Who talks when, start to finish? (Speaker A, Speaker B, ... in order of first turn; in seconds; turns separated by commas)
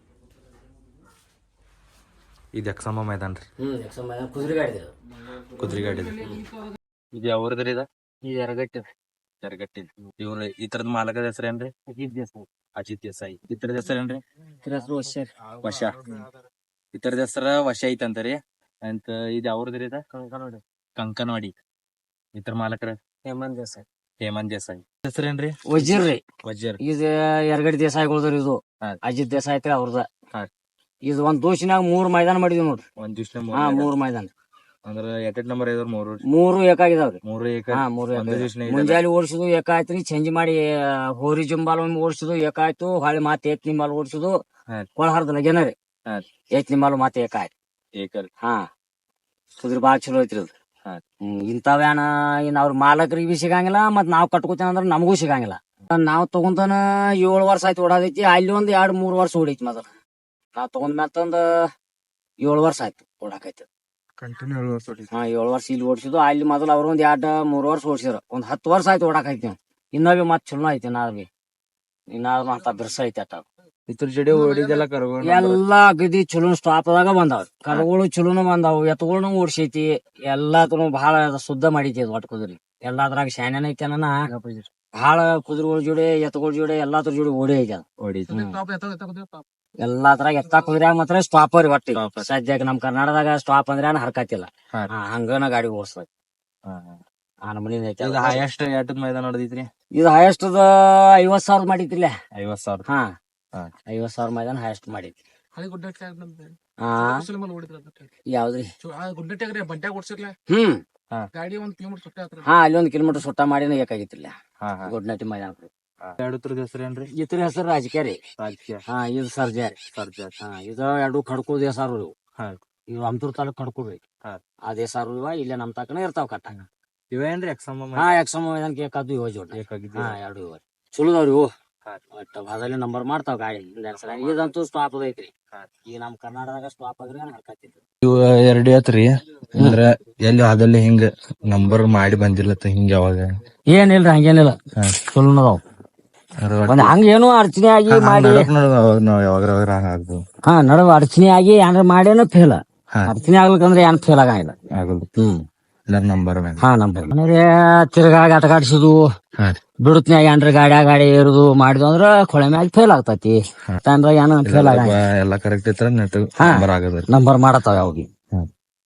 Speaker A: 2.5-3.5, Speaker B: 3.6-4.9, Speaker A: 5.5-6.4, Speaker A: 7.1-7.9, Speaker B: 8.2-8.9, Speaker A: 9.4-11.7, Speaker B: 11.9-12.5, Speaker A: 12.8-14.2, Speaker B: 14.6-15.3, Speaker A: 15.6-16.3, Speaker A: 16.9-20.0, Speaker B: 20.1-20.6, Speaker A: 21.0-21.5, Speaker A: 22.3-23.0, Speaker B: 23.2-23.8, Speaker A: 24.2-26.8, Speaker B: 25.7-26.2, Speaker B: 26.8-30.1, Speaker B: 31.1-32.8, Speaker A: 33.0-33.9, Speaker B: 33.5-34.3, Speaker A: 34.9-36.2, Speaker B: 36.3-44.4, Speaker A: 37.2-39.0, Speaker B: 45.0-45.7, Speaker B: 46.5-47.5, Speaker A: 48.0-48.3, Speaker B: 48.4-48.7, Speaker B: 49.6-50.5, Speaker B: 51.2-59.9, Speaker B: 60.5-61.7, Speaker B: 62.4-63.7, Speaker A: 64.2-65.1, Speaker B: 65.1-71.3, Speaker B: 72.1-73.4, Speaker A: 73.9-75.6, Speaker B: 75.2-84.3, Speaker B: 85.0-88.6, Speaker A: 88.0-88.6, Speaker C: 88.6-89.4, Speaker B: 89.8-96.1, Speaker A: 91.9-92.3, Speaker A: 96.7-97.0, Speaker B: 97.5-98.4, Speaker A: 98.0-99.7, Speaker B: 99.9-102.1, Speaker A: 102.3-102.8, Speaker B: 102.8-103.1, Speaker B: 103.9-105.1, Speaker C: 105.6-106.5, Speaker B: 106.8-107.3, Speaker C: 107.1-108.0, Speaker B: 108.3-108.7, Speaker C: 108.9-110.4, Speaker B: 110.5-110.8, Speaker C: 111.3-112.4, Speaker B: 112.4-114.3, Speaker A: 114.6-114.9, Speaker B: 114.8-115.7, Speaker A: 116.0-117.1, Speaker B: 117.1-118.2, Speaker A: 118.4-118.8, Speaker B: 118.9-119.8, Speaker A: 119.9-120.3, Speaker B: 120.4-122.1, Speaker B: 122.9-124.0, Speaker B: 124.7-126.5, Speaker A: 126.5-128.1, Speaker B: 128.0-131.5, Speaker A: 129.5-130.2, Speaker B: 132.1-135.3, Speaker B: 135.9-137.8, Speaker A: 138.0-143.3, Speaker B: 143.7-144.6, Speaker A: 144.8-145.0, Speaker B: 145.1-145.6, Speaker A: 146.4-146.9, Speaker B: 146.7-148.5, Speaker A: 147.9-150.2, Speaker B: 150.5-154.6, Speaker A: 154.7-155.1, Speaker B: 155.2-155.4, Speaker A: 155.9-156.7, Speaker B: 156.6-159.0, Speaker B: 159.8-165.0, Speaker A: 164.4-167.1, Speaker B: 166.4-168.1